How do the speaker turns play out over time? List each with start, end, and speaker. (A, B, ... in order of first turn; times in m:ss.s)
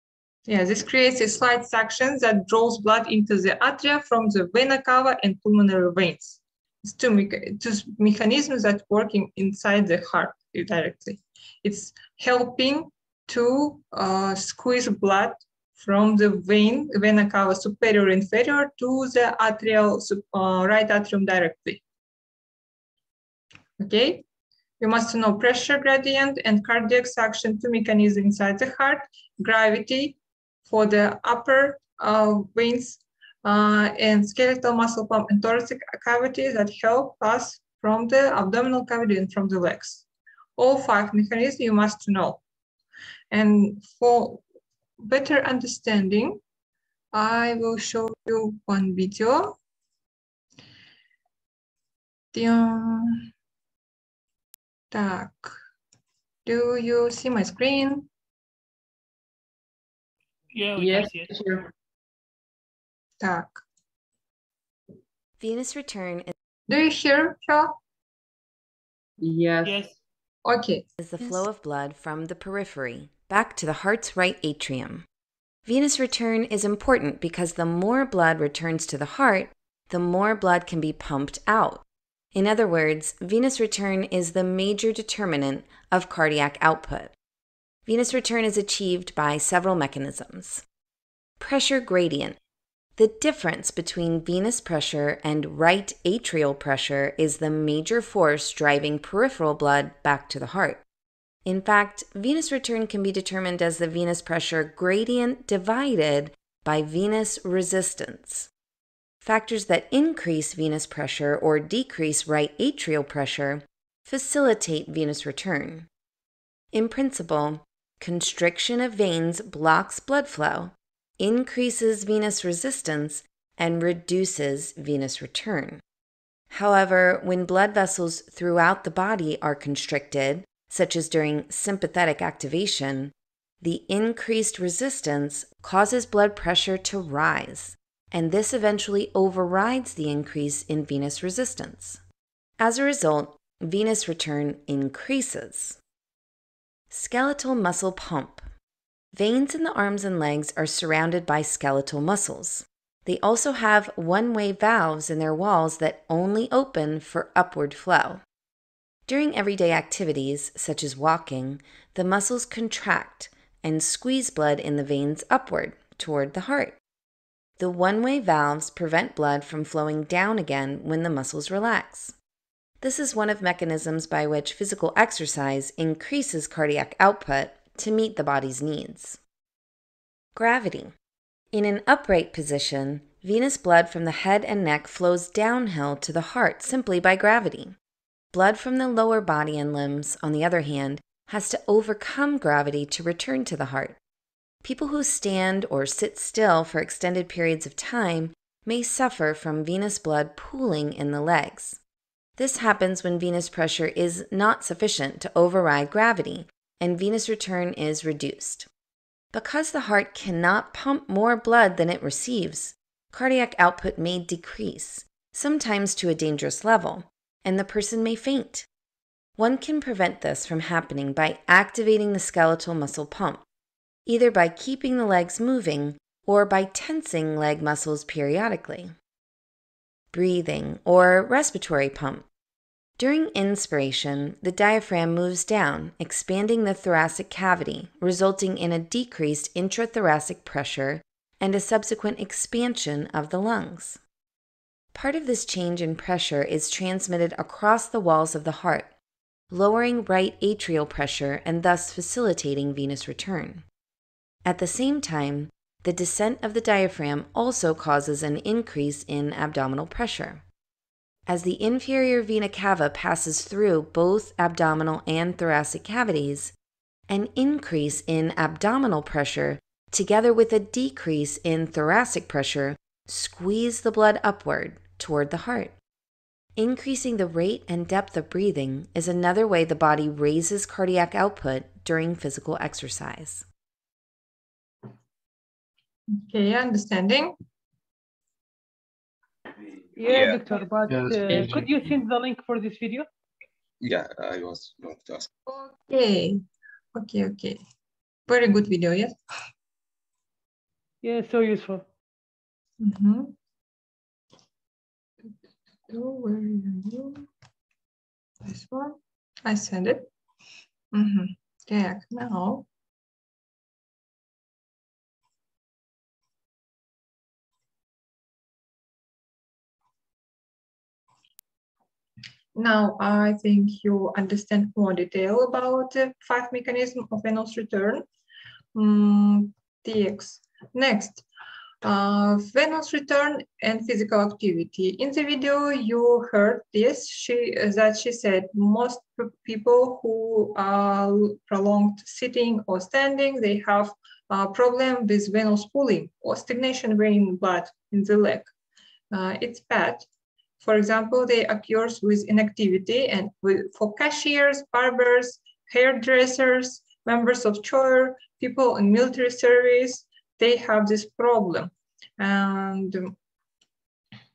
0:00.5-0:21.8 A
0:23.8-0:24.2 A
0:24.8-0:40.0 A
0:40.6-0:42.4 A
0:43.3-0:44.4 A
0:45.0-0:46.4 A
0:47.1-0:49.6 A
0:52.3-0:53.3 A
0:54.9-0:55.6 A
0:56.5-0:58.1 A
1:00.5-1:01.3 B
1:00.8-1:01.7 C
1:03.2-1:03.6 A
1:05.4-1:06.3 D
1:06.7-1:07.8 A
1:09.2-1:09.9 C
1:09.6-1:09.9 B
1:10.4-1:10.8 A
1:11.0-1:15.1 D
1:15.6-1:27.1 D
1:27.9-1:30.6 D
1:31.4-1:32.4 D
1:33.0-1:40.8 D
1:41.4-1:48.5 D
1:49.2-1:55.9 D
1:56.7-2:05.8 D
2:06.5-2:22.0 D
2:22.6-2:25.8 D
2:26.9-2:28.5 D
2:29.1-2:38.2 D
2:39.1-2:46.8 D
2:47.6-2:52.1 D
2:52.8-2:59.2 D
3:00.4-3:00.9 D
3:01.5-3:07.8 D
3:08.3-3:14.0 D
3:14.6-3:21.8 D
3:22.4-3:28.7 D
3:29.3-3:38.7 D
3:39.4-3:43.4 D
3:44.1-3:48.9 D
3:50.1-3:52.2 D
3:53.0-4:04.0 D
4:04.9-4:08.9 D
4:09.5-4:13.6 D
4:14.4-4:20.4 D
4:21.3-4:26.5 D
4:27.1-4:35.8 D
4:36.6-4:43.4 D
4:46.2-4:47.4 A
4:50.0-4:53.1 B
4:50.1-4:51.7 E
4:51.3-4:51.6 C
4:53.8-4:55.3 E
4:55.5-4:56.4 A
4:56.9-4:57.6 A
4:58.3-4:59.1 A
5:01.0-5:01.8 B
5:02.8-5:03.4 A
5:05.9-5:07.3 A
5:08.4-5:10.1 A
5:10.9-5:12.7 A
5:22.6-5:28.0 A
5:28.8-5:31.2 A
5:31.8-5:48.5 A
5:49.1-5:50.1 A
5:50.6-6:03.1 A